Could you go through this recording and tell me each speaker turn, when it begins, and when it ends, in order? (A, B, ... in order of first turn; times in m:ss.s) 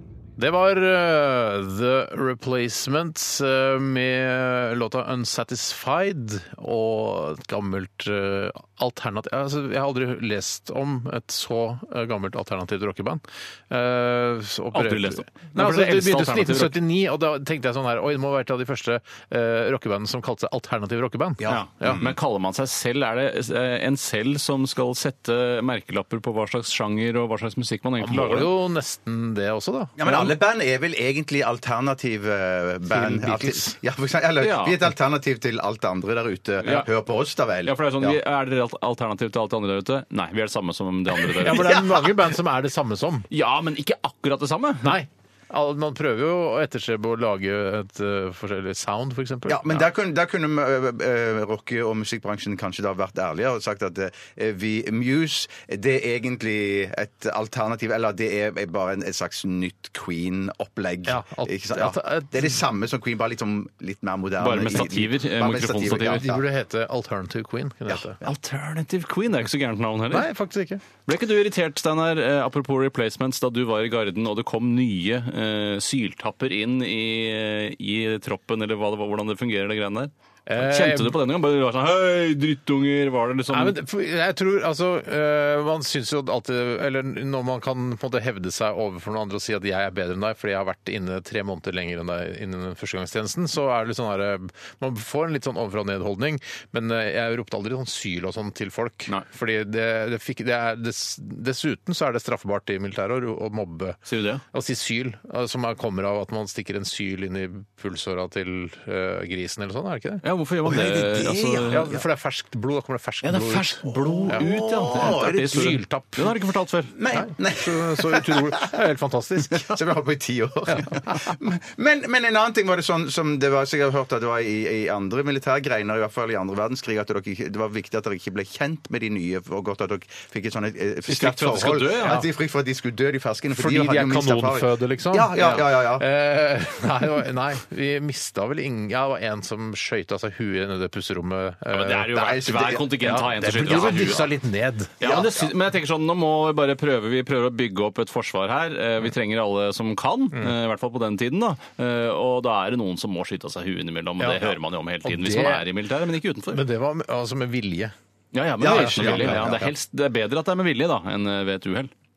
0:00.4-0:22.0 A
0:14.7-0:16.8 B
0:21.4-0:22.1 C
0:21.4-0:28.5 B
0:28.0-0:30.3 A
0:30.0-0:38.2 C
0:32.9-0:33.8 A
0:34.4-0:34.8 B
0:36.6-0:36.9 B
0:37.6-0:41.8 B
0:41.4-0:43.3 A
0:41.4-0:42.2 C
0:43.3-0:45.0 B
0:44.8-0:49.9 A
0:49.5-1:06.4 C
1:01.0-1:02.6 A
1:04.4-1:06.2 B
1:06.0-1:08.2 A
1:08.2-1:10.3 B
1:10.1-1:10.8 A
1:11.0-1:23.8 B
1:20.4-1:21.2 A
1:23.5-1:44.0 A
1:44.0-1:44.4 B
1:44.5-1:56.3 A
1:50.2-1:51.9 B
1:50.7-1:52.0 C
1:53.2-1:56.9 B
1:53.9-1:55.8 C
1:57.0-1:58.8 C
1:57.1-1:59.8 A
1:59.5-2:16.0 C
2:11.1-2:12.2 B
2:13.5-2:22.1 A
2:21.7-2:24.3 B
2:22.1-2:23.0 C
2:23.0-2:25.0 A
2:23.7-2:24.1 C
2:25.0-2:36.6 B
2:25.0-2:25.5 C
2:34.2-2:35.7 A
2:36.5-2:37.9 A
2:38.3-2:41.9 B
2:38.6-2:39.7 C
2:38.6-2:39.7 A